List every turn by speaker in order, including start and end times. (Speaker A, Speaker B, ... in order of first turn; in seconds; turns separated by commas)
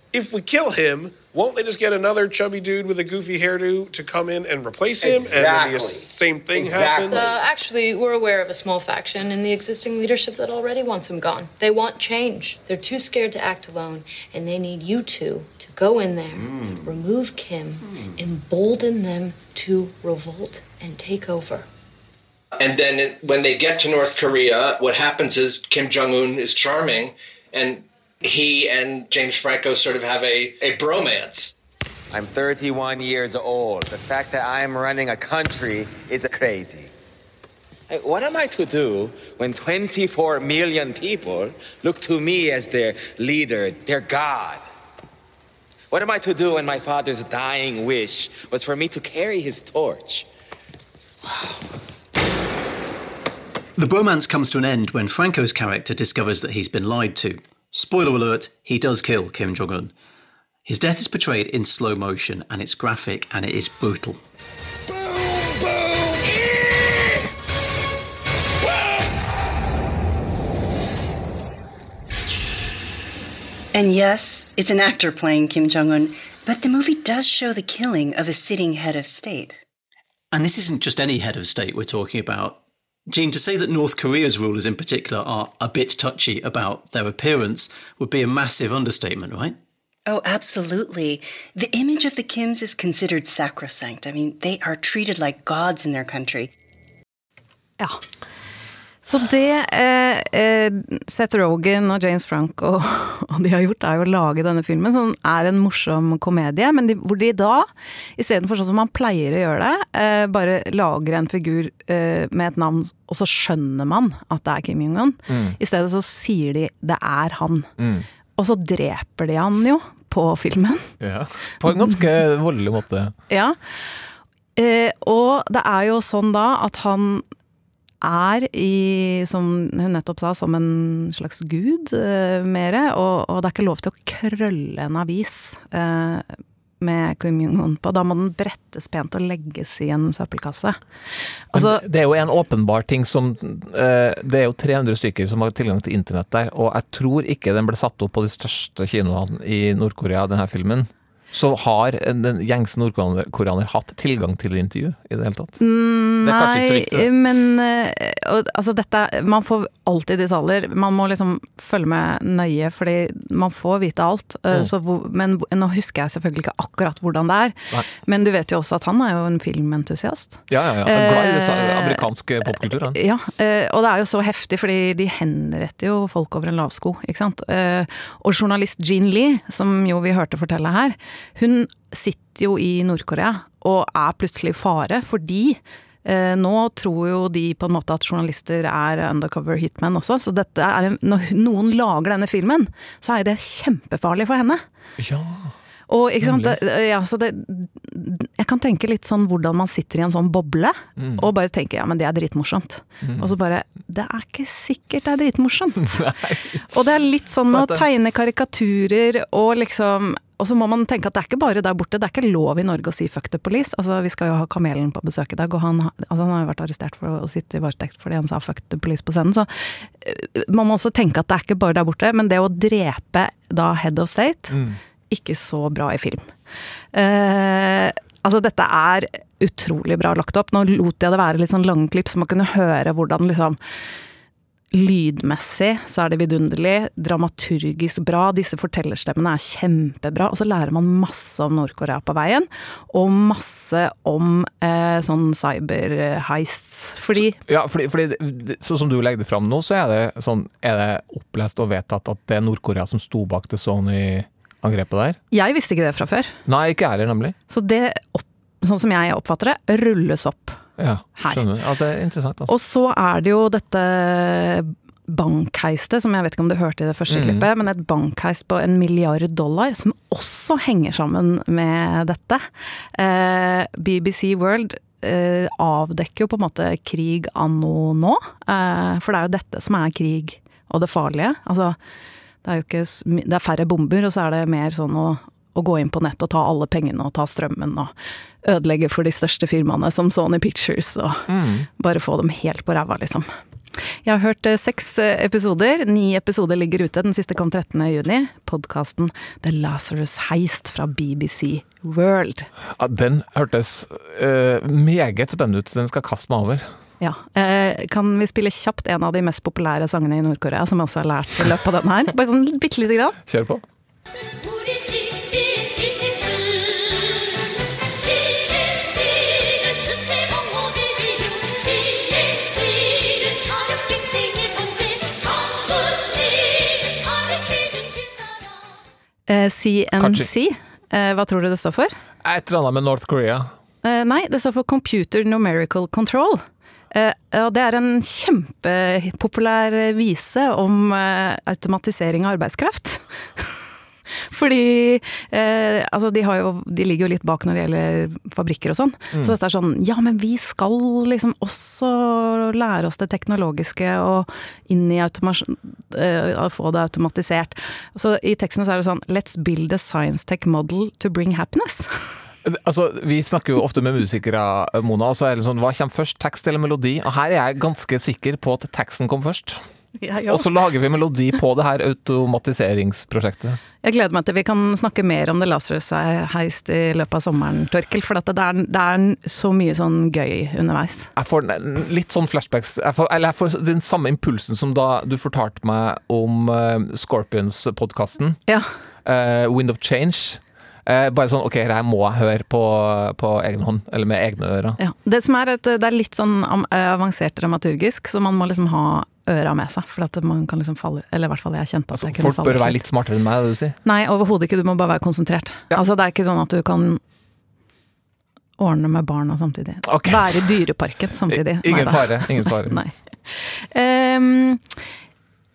Speaker A: 0.1-7.3, Speaker B: 5.0-7.4, Speaker C: 7.1-21.7, Speaker B: 22.6-31.5, Speaker D: 32.1-36.9, Speaker D: 37.9-44.6, Speaker D: 45.9-50.2, Speaker E: 53.8-59.9, Speaker E: 60.6-64.2, Speaker F: 73.7-79.6, Speaker E: 80.3-89.6, Speaker F: 90.0-96.5, Speaker G: 99.0-117.7, Speaker H: 115.3-115.6, Speaker H: 117.8-118.1, Speaker G: 118.3-120.9, Speaker H: 121.0-123.1, Speaker G: 123.3-123.6, Speaker G: 124.5-127.2, Speaker G: 128.0-136.2, Speaker G: 136.8-140.8, Speaker G: 141.5-141.8, Speaker H: 141.5-155.6, Speaker G: 155.6-172.0, Speaker H: 156.2-157.1, Speaker H: 170.5-173.0, Speaker G: 172.9-194.6, Speaker H: 195.0-195.5, Speaker G: 195.9-206.0, Speaker H: 196.2-196.6, Speaker H: 205.8-206.7, Speaker G: 206.7-224.6, Speaker H: 207.5-207.9, Speaker H: 224.5-224.8, Speaker G: 225.1-226.3, Speaker G: 226.9-233.6, Speaker G: 234.7-247.4, Speaker H: 247.2-255.2, Speaker G: 255.3-256.3, Speaker H: 256.4-257.4, Speaker G: 257.5-260.6, Speaker H: 260.8-262.5, Speaker G: 261.2-261.4, Speaker G: 262.5-272.4, Speaker H: 267.1-267.5, Speaker G: 272.9-281.8, Speaker G: 282.4-287.9, Speaker G: 288.4-293.3, Speaker H: 291.3-291.7, Speaker G: 294.0-302.5, Speaker H: 302.7-306.7, Speaker G: 307.0-313.2, Speaker H: 313.2-313.6, Speaker G: 329.3-331.9, Speaker H: 330.0-330.3, Speaker H: 332.2-333.5, Speaker G: 333.8-343.6, Speaker G: 344.3-362.1, Speaker H: 362.4-369.6, Speaker G: 370.0-370.4, Speaker H: 370.2-373.6, Speaker G: 373.8-381.1, Speaker H: 381.1-388.4, Speaker H: 389.0-394.8, Speaker G: 394.8-402.8, Speaker H: 401.9-403.8, Speaker G: 403.8-407.0, Speaker G: 408.6-414.6, Speaker H: 409.8-410.6, Speaker H: 411.3-412.8